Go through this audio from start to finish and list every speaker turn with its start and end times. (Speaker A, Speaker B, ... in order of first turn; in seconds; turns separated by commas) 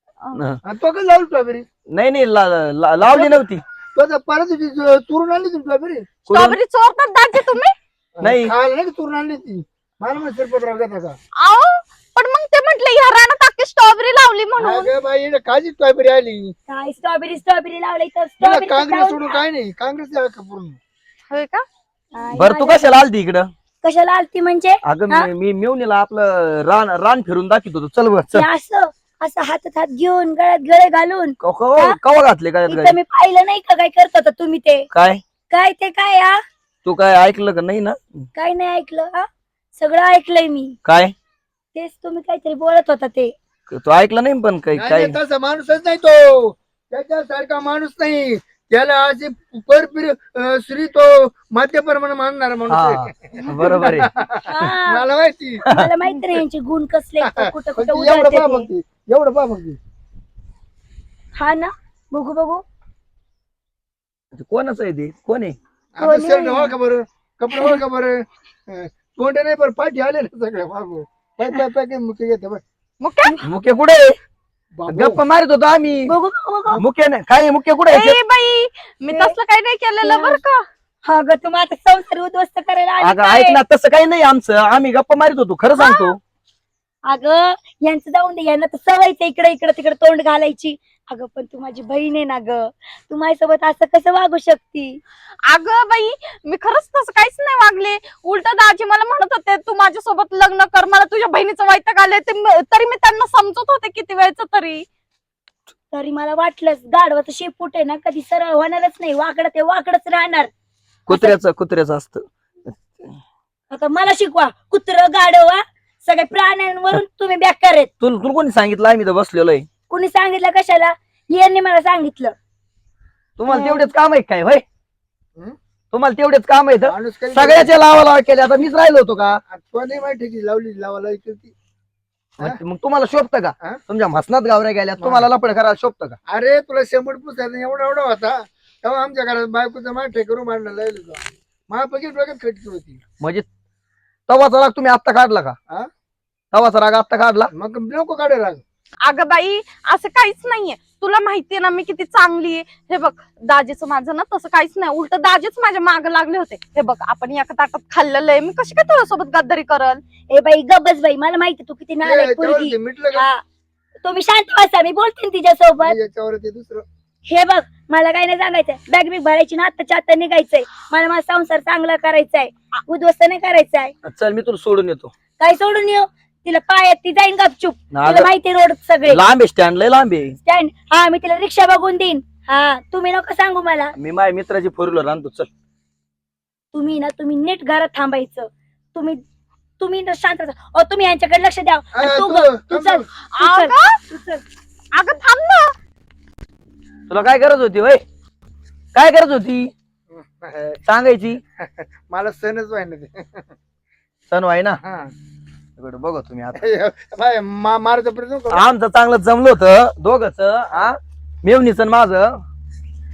Speaker A: 0.3-0.6, Speaker B: 0.6-1.6, Speaker A: 1.9-3.6, Speaker B: 3.9-6.2, Speaker A: 6.3-6.6, Speaker C: 6.3-7.7, Speaker B: 8.2-11.2, Speaker A: 8.2-8.5, Speaker C: 11.4-14.9, Speaker B: 14.6-16.5, Speaker D: 16.7-19.4, Speaker B: 18.4-20.8, Speaker C: 21.3-21.6, Speaker D: 22.1-22.8, Speaker A: 22.4-23.5, Speaker D: 23.8-25.3, Speaker A: 24.9-28.4, Speaker D: 28.3-32.0, Speaker A: 31.4-33.0, Speaker D: 32.7-34.9, Speaker A: 34.9-35.2, Speaker D: 35.5-36.4, Speaker A: 36.8-38.3, Speaker D: 38.4-40.8, Speaker A: 40.8-41.1, Speaker D: 41.7-43.3, Speaker A: 43.7-45.2, Speaker B: 44.7-55.6, Speaker A: 52.7-54.1, Speaker D: 54.4-55.0, Speaker D: 55.7-58.7, Speaker B: 57.2-59.8, Speaker D: 61.4-62.6, Speaker A: 64.3-65.5, Speaker B: 66.0-72.6, Speaker D: 66.0-66.7, Speaker C: 73.0-73.4, Speaker A: 73.4-74.2, Speaker B: 74.8-75.2, Speaker A: 74.9-76.1, Speaker D: 76.1-76.8, Speaker A: 76.8-78.2, Speaker C: 77.9-80.6, Speaker D: 80.0-80.4, Speaker D: 81.0-83.6, Speaker A: 83.0-86.2, Speaker C: 85.8-86.0, Speaker D: 87.1-95.0, Speaker C: 95.5-104.8, Speaker D: 105.9-110.5, Speaker A: 111.1-113.1, Speaker D: 111.1-111.3, Speaker D: 113.7-117.9, Speaker A: 118.0-119.7, Speaker D: 119.9-122.3, Speaker A: 123.4-124.6, Speaker D: 123.5-123.9, Speaker A: 125.9-129.4, Speaker B: 126.8-127.7, Speaker B: 129.5-131.5, Speaker A: 132.4-136.2, Speaker B: 135.0-135.2, Speaker B: 136.3-143.0, Speaker A: 143.2-143.4, Speaker A: 144.3-145.6, Speaker A: 146.5-147.5, Speaker B: 147.5-148.6, Speaker C: 149.0-160.0, Speaker D: 160.3-163.4, Speaker B: 162.0-163.2, Speaker D: 164.0-166.0, Speaker B: 165.8-166.8, Speaker D: 167.2-173.9, Speaker A: 174.0-175.1, Speaker D: 175.4-179.2, Speaker A: 177.9-178.3, Speaker A: 179.1-180.4, Speaker D: 180.4-183.9, Speaker A: 184.0-185.5, Speaker D: 186.7-189.2, Speaker D: 189.8-194.4, Speaker B: 191.9-193.0, Speaker C: 193.3-194.0, Speaker C: 194.9-195.7, Speaker A: 197.1-198.0, Speaker A: 198.9-199.7, Speaker B: 200.1-200.8, Speaker A: 200.8-201.4, Speaker B: 201.6-203.4, Speaker A: 204.3-204.8, Speaker B: 204.8-205.1, Speaker A: 205.8-206.6, Speaker B: 206.5-208.6, Speaker A: 208.5-212.4